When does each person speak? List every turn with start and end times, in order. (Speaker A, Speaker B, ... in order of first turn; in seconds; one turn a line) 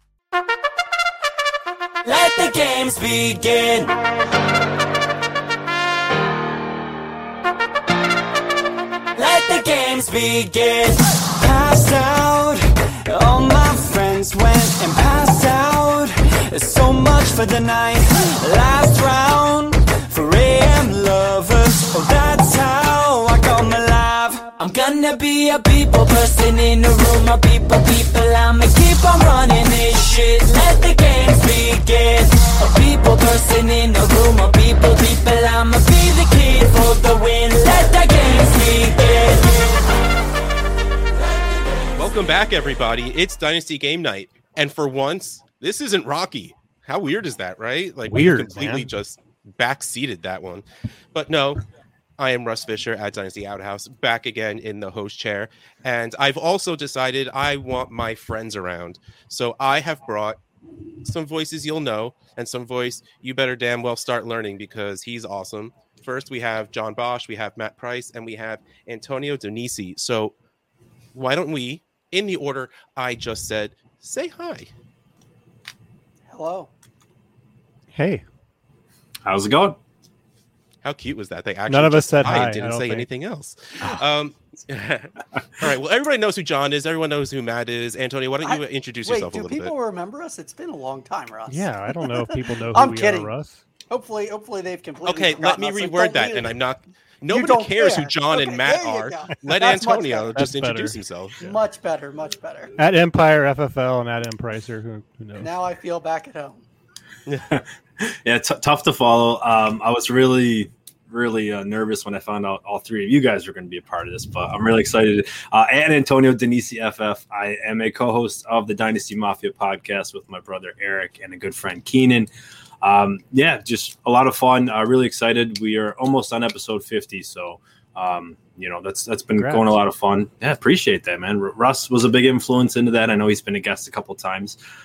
Speaker A: 2.0-3.9
Speaker A: 9.2-39.8
Speaker B: 42.0-51.6
Speaker C: 48.1-48.9
Speaker B: 52.2-60.4
Speaker B: 61.0-70.3
Speaker B: 71.1-74.7
Speaker D: 76.3-76.7
Speaker C: 77.9-78.2
Speaker E: 79.3-79.8
Speaker B: 80.8-89.7
Speaker C: 81.7-83.1
Speaker D: 88.4-93.3
Speaker C: 91.5-93.6
Speaker D: 93.9-96.6
Speaker B: 95.1-101.5
Speaker D: 97.3-100.4
Speaker C: 100.3-101.0
Speaker D: 101.4-102.7
Speaker C: 102.8-105.5
Speaker D: 105.4-106.6
Speaker E: 107.5-122.3
Speaker E: 122.8-134.6
Speaker C: 129.4-129.7